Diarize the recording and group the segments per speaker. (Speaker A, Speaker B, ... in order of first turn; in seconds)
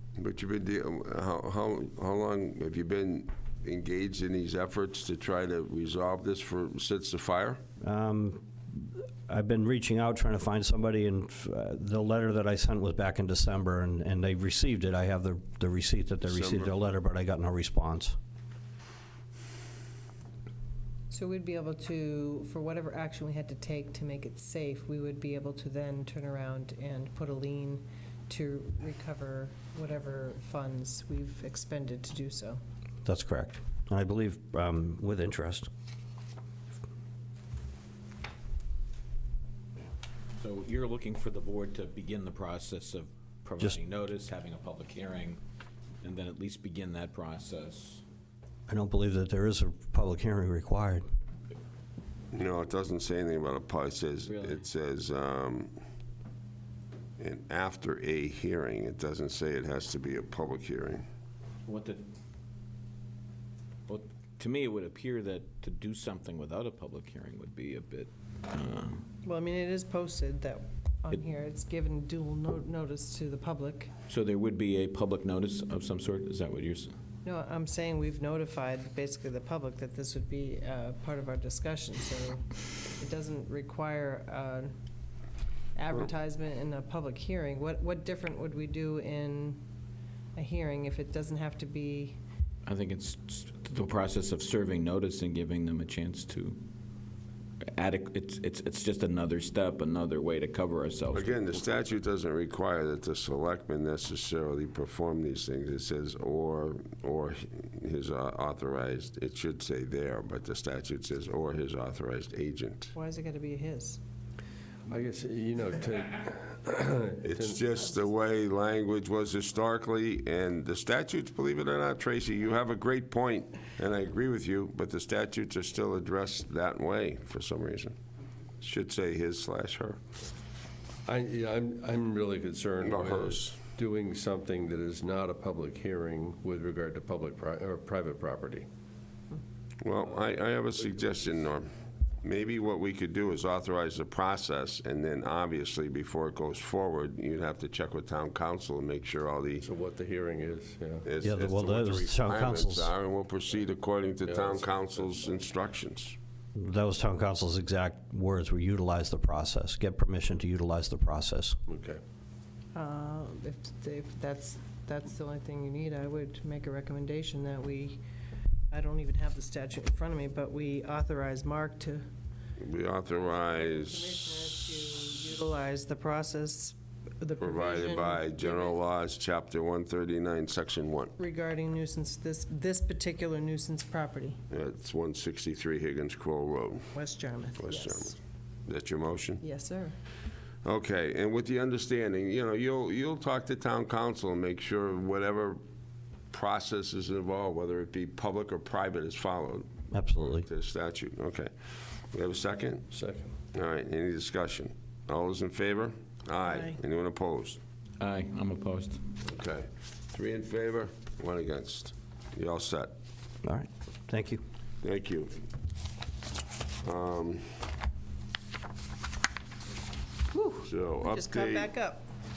Speaker A: 0.2-7.6, 16.2-16.7, 52.3-55.7, 57.2-61.0, 101.1-112.9, 117.2-128.0, 128.6-130.0, 132.8-133.6, 139.8-141.7, 142.2-149.6, 151.0-156.2, 172.6-174.2, 177.4-181.1, 184.5-186.8, 187.6-189.4, 190.6-195.6, 196.3-202.9, 203.5-207.6, 209.2-212.9, 214.8-215.4, 216.8-217.4, 220.6-221.7
Speaker B: 7.8-18.2, 33.0-35.7, 48.7-51.0, 151.2-152.9, 156.6-161.6, 199.9-200.4, 213.4-214.4
Speaker C: 21.1-32.6, 69.2-73.9, 77.2-84.7, 85.7-89.6, 90.3-92.2, 112.9-114.0, 162.7-168.0, 168.7-172.0, 173.5-178.7, 181.2-184.4, 186.9-188.1, 189.4-189.9, 220.3-222.0
Speaker D: 40.4-45.4, 46.0-48.0, 54.3-54.6, 61.6-62.0, 63.9-69.0, 74.1-76.9, 92.7-96.6, 97.7-101.3, 208.0-209.0
Speaker E: 114.9-117.5, 131.0-138.7, 149.6-151.1, 154.2-155.2, 161.7-162.0, 202.9-203.3